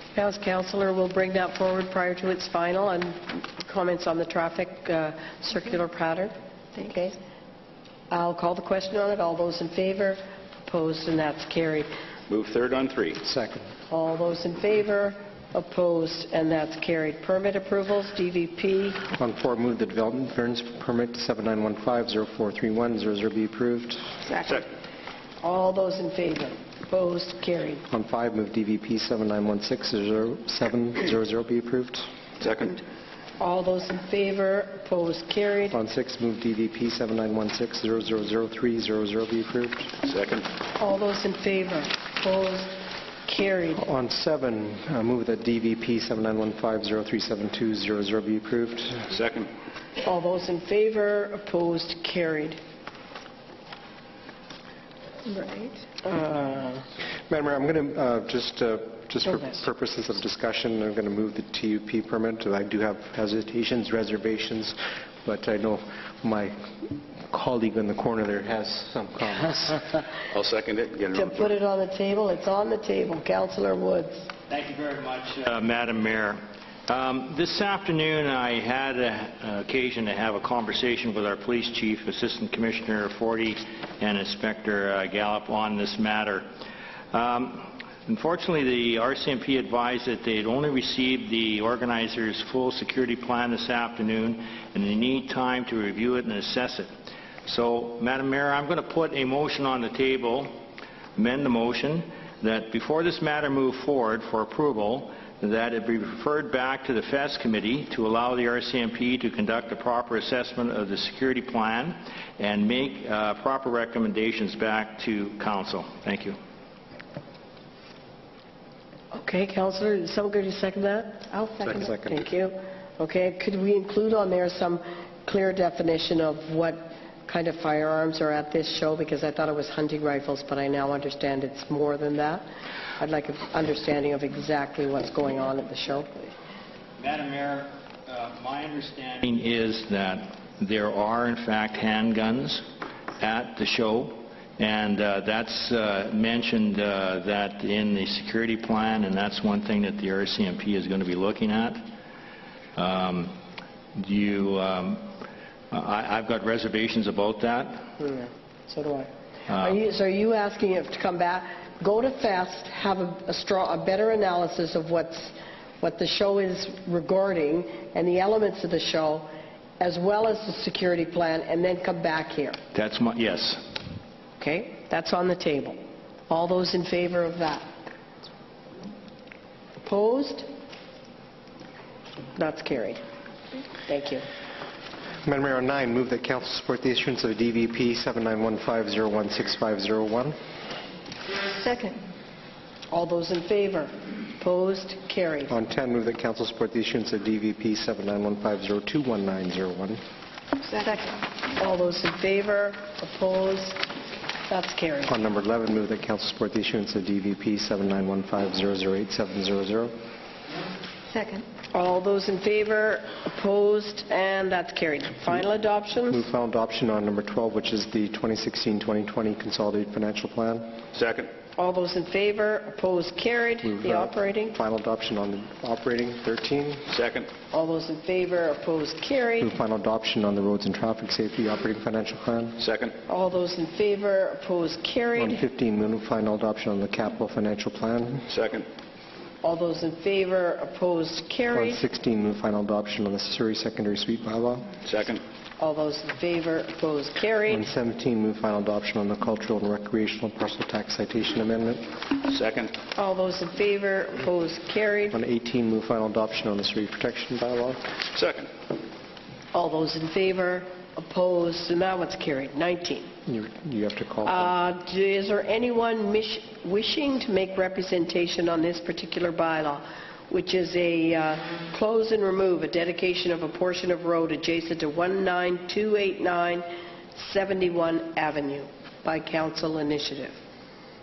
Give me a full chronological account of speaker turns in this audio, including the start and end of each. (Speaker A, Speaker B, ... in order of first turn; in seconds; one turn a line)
Speaker A: 0.1-7.2
Speaker A: 8.1-11.9
Speaker B: 12.3-13.2
Speaker C: 13.2-13.7
Speaker A: 13.9-19.0
Speaker C: 19.1-24.1
Speaker A: 25.4-27.8
Speaker C: 27.9-32.1
Speaker B: 32.4-32.8
Speaker A: 33.4-35.8
Speaker C: 35.7-40.0
Speaker B: 40.0-40.5
Speaker A: 40.8-43.8
Speaker C: 43.8-49.1
Speaker B: 49.1-49.5
Speaker A: 50.0-52.6
Speaker D: 55.3-55.8
Speaker A: 56.0-56.9
Speaker C: 57.3-66.5
Speaker C: 67.3-69.9
Speaker B: 70.3-71.5
Speaker A: 71.1-74.3
Speaker E: 74.5-86.5
Speaker E: 87.1-96.9
Speaker E: 97.5-100.6
Speaker E: 101.2-116.3
Speaker A: 119.1-132.4
Speaker C: 121.6-122.3
Speaker A: 133.0-136.3
Speaker E: 137.0-142.6
Speaker E: 143.2-151.8
Speaker E: 152.8-153.3
Speaker E: 154.0-155.1
Speaker E: 155.7-157.9
Speaker A: 158.0-169.3
Speaker A: 169.8-172.6
Speaker E: 172.7-173.7
Speaker A: 174.4-177.7
Speaker A: 179.8-180.5
Speaker A: 182.4-183.0
Speaker A: 183.9-184.2
Speaker C: 185.2-190.3
Speaker D: 191.6-192.0
Speaker A: 192.9-195.5
Speaker C: 195.5-200.0
Speaker D: 200.7-201.2
Speaker A: 201.5-203.9
Speaker A: 204.5-205.2
Speaker C: 205.1-209.9
Speaker D: 211.1-211.5
Speaker A: 211.7-216.2
Speaker C: 216.1-220.8
Speaker B: 220.9-221.3
Speaker A: 221.6-224.6
Speaker C: 223.6-226.9
Speaker B: 226.9-227.3
Speaker A: 227.5-229.5
Speaker C: 229.4-232.6
Speaker B: 232.6-232.9
Speaker A: 233.1-235.4
Speaker C: 235.2-238.3
Speaker B: 238.3-238.7
Speaker A: 239.4-241.8
Speaker C: 241.5-244.7
Speaker B: 244.8-245.2
Speaker A: 245.6-247.7
Speaker C: 247.5-251.9
Speaker B: 252.3-252.8
Speaker A: 252.9-255.2
Speaker C: 255.1-257.8
Speaker B: 258.1-258.5
Speaker A: 259.5-263.1
Speaker C: 263.3-264.5
Speaker A: 264.2-280.4